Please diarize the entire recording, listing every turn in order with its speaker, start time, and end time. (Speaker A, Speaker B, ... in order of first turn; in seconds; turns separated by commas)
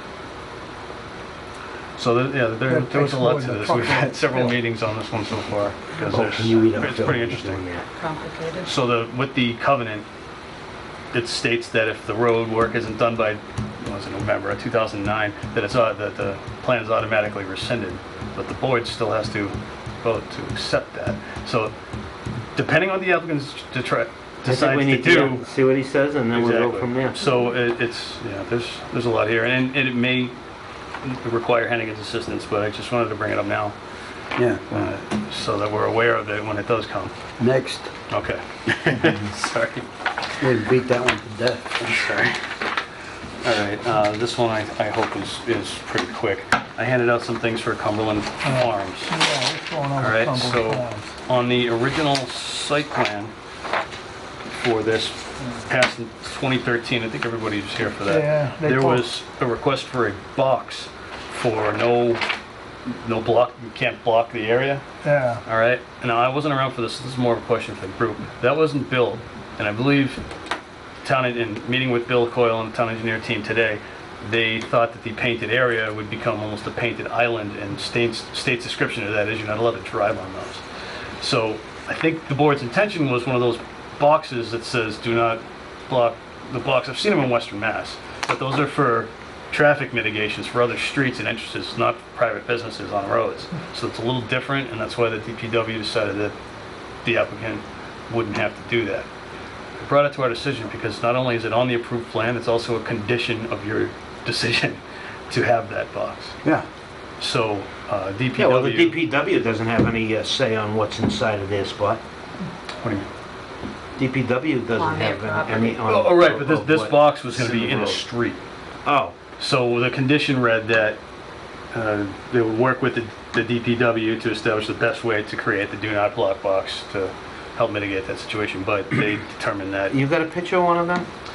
Speaker A: 2.0-7.7, Speaker B: 2.7-4.5, Speaker C: 6.1-7.9, Speaker D: 8.0-8.7, Speaker A: 8.6-10.1, Speaker A: 11.1-21.7, Speaker A: 22.6-25.5, Speaker C: 24.4-27.2, Speaker A: 26.3-30.4, Speaker A: 31.0-33.8, Speaker E: 34.4-34.7, Speaker A: 34.7-37.1, Speaker E: 37.4-37.9, Speaker A: 38.1-39.9, Speaker E: 40.4-41.8, Speaker A: 41.8-42.4, Speaker A: 43.4-49.1, Speaker B: 48.4-51.1, Speaker A: 50.0-53.3, Speaker A: 54.5-62.2, Speaker B: 58.0-59.1, Speaker A: 62.9-64.8, Speaker B: 65.0-65.4, Speaker A: 65.5-70.2, Speaker A: 71.0-80.6, Speaker A: 81.2-96.3, Speaker A: 97.0-99.1, Speaker A: 99.8-106.3, Speaker A: 107.2-109.0, Speaker C: 108.4-112.0, Speaker A: 112.8-113.1, Speaker C: 114.0-118.0, Speaker D: 114.7-115.9, Speaker A: 115.9-118.4, Speaker C: 118.8-119.1, Speaker A: 119.4-121.0, Speaker A: 121.7-130.0, Speaker C: 129.9-131.1